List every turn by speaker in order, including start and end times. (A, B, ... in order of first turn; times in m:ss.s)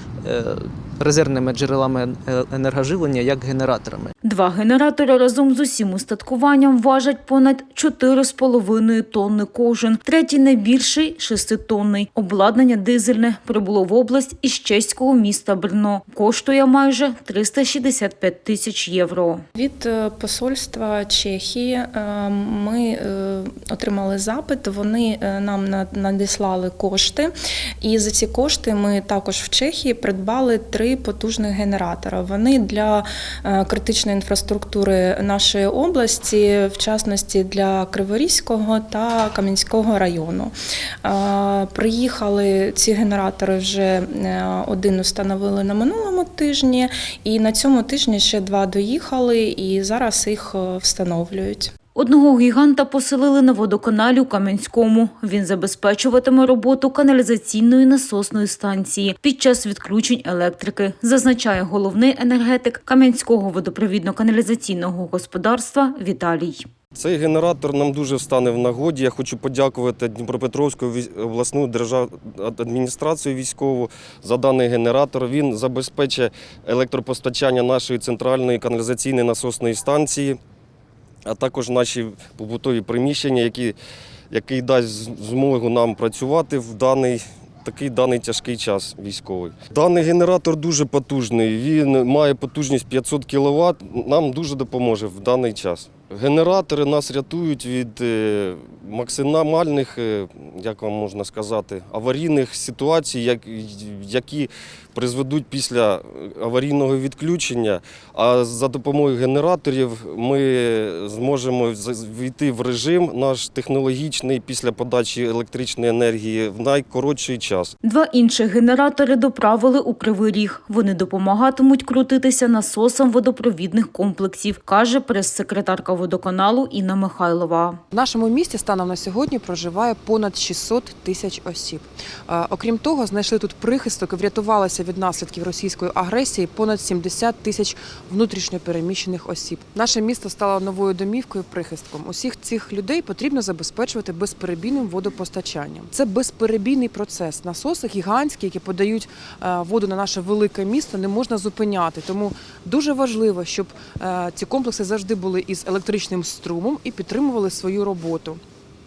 0:00.2-0:04.1 A
0:04.2-0:19.4 B
0:19.6-0:51.7 C
0:51.9-1:06.6 B
1:06.9-1:20.4 D
1:21.2-1:23.8 D
1:24.3-1:57.7 D
1:57.8-2:07.8 B
2:07.9-2:38.4 E